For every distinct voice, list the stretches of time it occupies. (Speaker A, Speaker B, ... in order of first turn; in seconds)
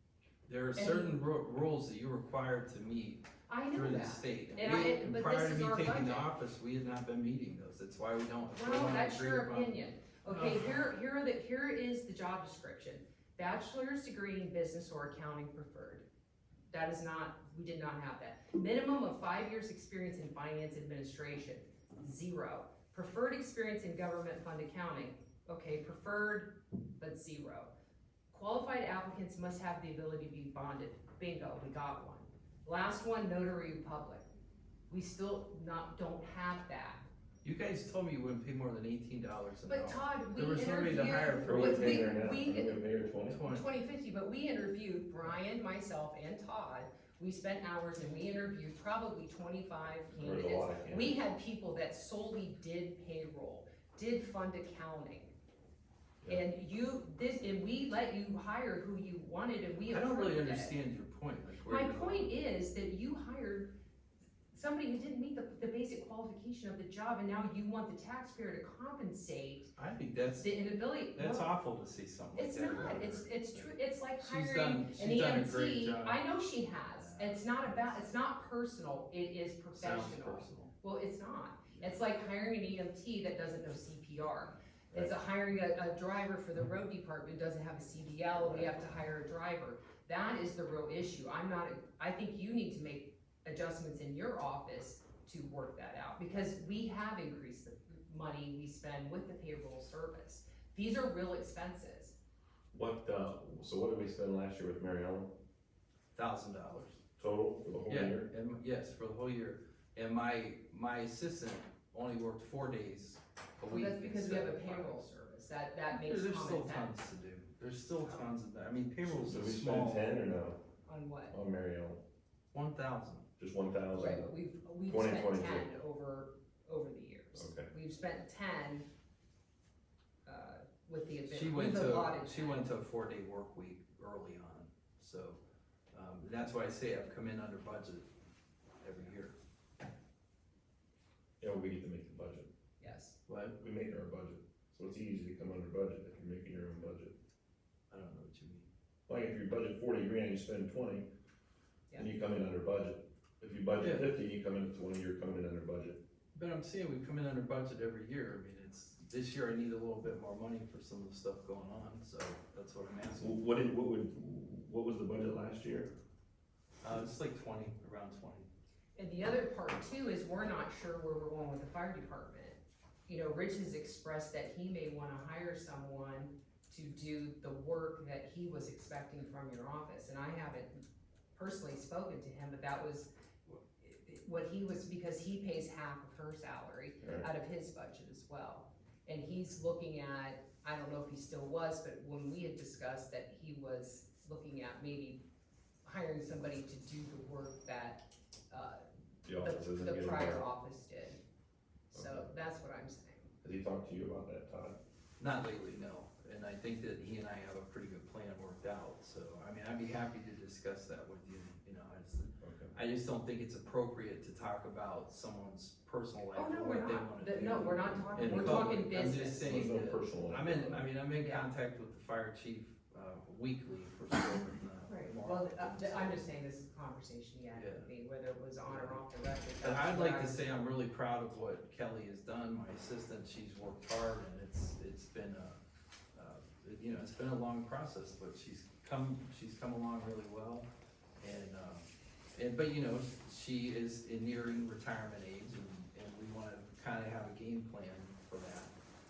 Speaker A: 0.5-10.9, 37.4-42.2, 43.3-43.7, 59.9-62.3, 69.8-70.5, 71.1-76.3, 76.9-78.0, 79.8-80.7, 81.7-82.0, 106.2-107.0, 107.9-115.0, 115.9-120.2, 122.5-123.3, 131.3-135.4, 135.9-138.1, 138.8-139.3, 143.3-143.6, 147.9-148.7, 153.8-154.1, 156.3-163.4, 166.8-168.5, 205.2-226.3, 227.5-227.9, 228.7-229.0, 229.6-235.6, 236.1-240.7, 241.2-248.7
Speaker B: 0.8-1.2, 3.5-6.3, 8.5-16.1, 16.7-27.7, 28.3-34.2, 34.9-37.1, 39.6-42.8, 43.4-55.3, 56.3-60.8, 61.6-63.7, 64.5-69.7, 70.4-71.5, 72.4-102.2, 113.7-116.9, 120.9-121.3, 123.9-128.8, 130.2-132.7, 142.8-143.2, 169.0-180.8, 181.3-195.2, 195.8-201.2, 201.9-203.3, 216.3-219.6, 221.2-221.5, 224.9-230.7
Speaker C: 41.4-43.4, 50.2-51.2, 88.4-88.8, 102.7-105.3, 107.2-108.3, 119.0-120.6, 121.3-122.0, 123.4-124.3, 124.9-125.7, 127.3-127.7, 141.4-142.5, 143.6-147.2, 149.1-151.1, 151.9-156.0, 163.2-165.9, 187.0-187.3, 199.2-200.4, 201.9-202.3, 203.4-204.8, 212.4-212.7, 218.2-218.7, 219.4-220.8